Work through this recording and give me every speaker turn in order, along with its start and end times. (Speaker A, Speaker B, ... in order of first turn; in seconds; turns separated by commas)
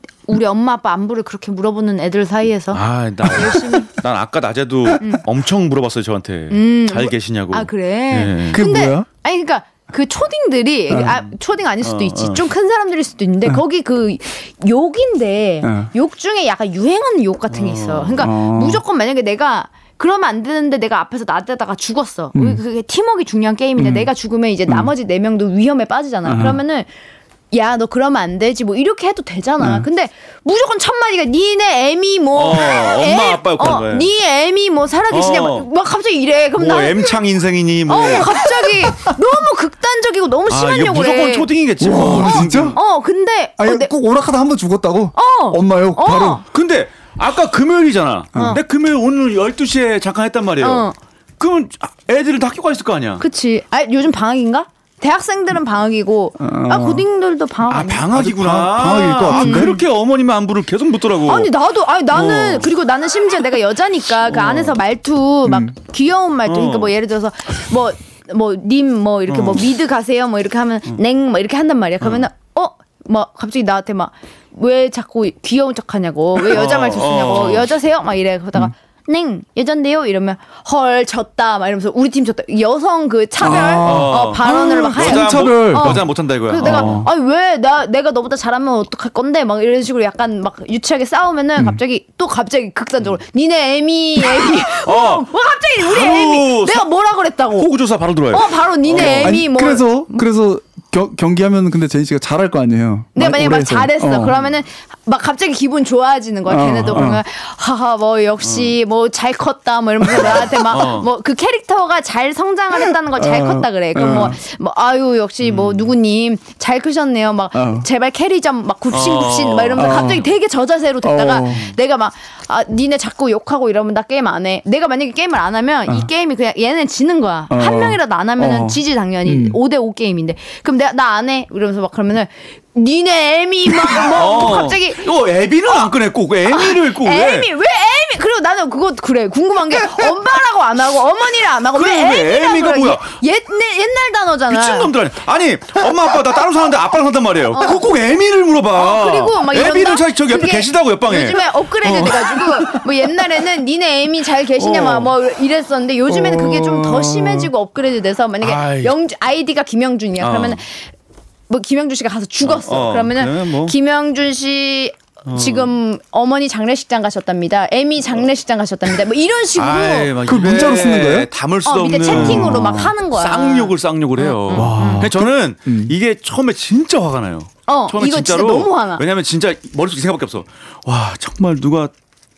Speaker A: 0.3-3.9, Speaker B: 2.7-8.6, Speaker A: 6.5-26.9, Speaker C: 8.5-9.1, Speaker C: 10.9-11.2, Speaker B: 11.8-12.5, Speaker C: 15.6-15.9, Speaker B: 17.5-18.2, Speaker C: 18.2-18.8, Speaker C: 22.4-22.6, Speaker C: 23.8-24.1, Speaker C: 26.3-26.6, Speaker A: 27.5-37.2, Speaker C: 29.6-29.9, Speaker B: 32.4-34.1, Speaker B: 35.1-35.7, Speaker B: 36.6-38.5, Speaker A: 37.9-41.5, Speaker B: 40.5-42.8, Speaker C: 41.8-42.8, Speaker A: 42.1-43.9, Speaker C: 43.6-46.5, Speaker A: 45.1-46.4, Speaker B: 46.5-50.9, Speaker C: 48.4-48.6, Speaker A: 48.4-48.6, Speaker A: 50.6-51.0, Speaker B: 51.4-53.2, Speaker A: 53.2-58.1, Speaker C: 56.4-57.1, Speaker B: 57.7-61.5, Speaker C: 58.1-59.8, Speaker A: 59.0-59.8, Speaker A: 61.2-97.7, Speaker B: 62.1-62.7, Speaker B: 64.3-64.8, Speaker C: 65.5-65.7, Speaker B: 66.5-66.9, Speaker B: 69.3-69.7, Speaker B: 72.0-72.3, Speaker B: 76.4-77.7, Speaker C: 83.4-86.1, Speaker B: 83.8-87.0, Speaker C: 86.6-87.1, Speaker B: 94.5-96.9, Speaker B: 97.5-99.5, Speaker A: 98.3-100.2, Speaker C: 99.0-104.4, Speaker A: 103.2-135.1, Speaker C: 106.5-107.2, Speaker B: 108.4-108.7, Speaker B: 110.2-111.1, Speaker C: 113.2-114.4, Speaker B: 115.4-115.9, Speaker C: 117.5-117.9, Speaker B: 118.9-120.3, Speaker C: 119.8-120.3, Speaker C: 121.0-121.6, Speaker B: 121.5-121.7, Speaker C: 127.5-129.6, Speaker B: 134.0-137.5, Speaker A: 136.5-144.9, Speaker B: 141.7-143.2, Speaker B: 144.5-153.1, Speaker A: 147.5-147.8, Speaker A: 148.8-160.9, Speaker B: 154.6-155.1, Speaker C: 156.1-157.5, Speaker B: 158.4-158.9, Speaker B: 160.2-160.6, Speaker A: 161.5-170.7, Speaker B: 162.4-163.8, Speaker B: 165.3-165.7, Speaker B: 169.6-181.9, Speaker C: 170.3-171.3, Speaker A: 171.7-175.1, Speaker C: 172.1-172.9, Speaker C: 174.5-175.9, Speaker A: 177.7-179.1